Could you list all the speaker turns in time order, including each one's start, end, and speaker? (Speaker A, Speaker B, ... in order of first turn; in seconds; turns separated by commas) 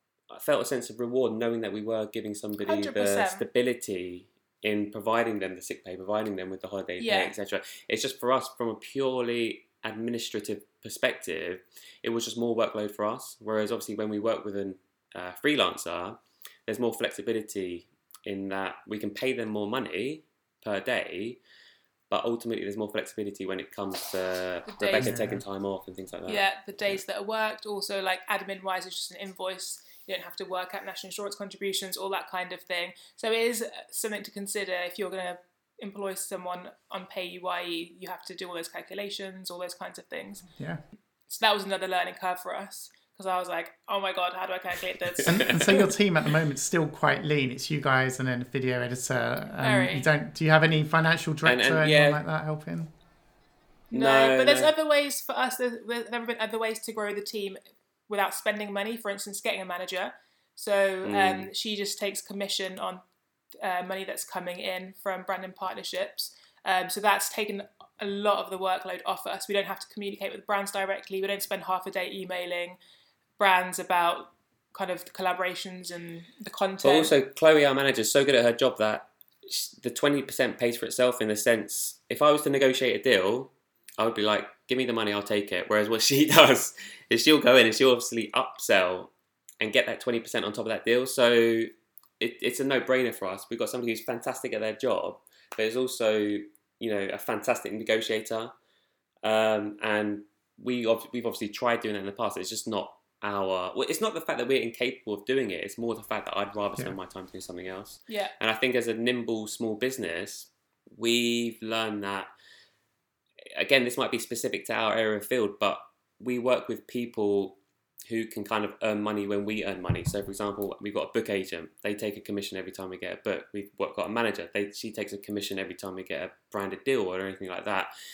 Speaker A: 0.3-21.4, Speaker B: 2.6-3.5, Speaker B: 7.0-7.3, Speaker A: 22.1-27.0, Speaker B: 24.7-25.2, Speaker C: 25.0-25.4, Speaker B: 26.2-40.5, Speaker C: 40.6-40.8, Speaker B: 41.3-45.9, Speaker C: 45.2-52.9, Speaker B: 49.6-50.1, Speaker A: 51.4-52.2, Speaker B: 53.9-63.0, Speaker A: 53.9-54.7, Speaker A: 61.0-61.5, Speaker B: 63.6-72.8, Speaker B: 73.4-77.1, Speaker A: 76.8-98.5, Speaker A: 99.2-112.3, Speaker A: 113.5-127.9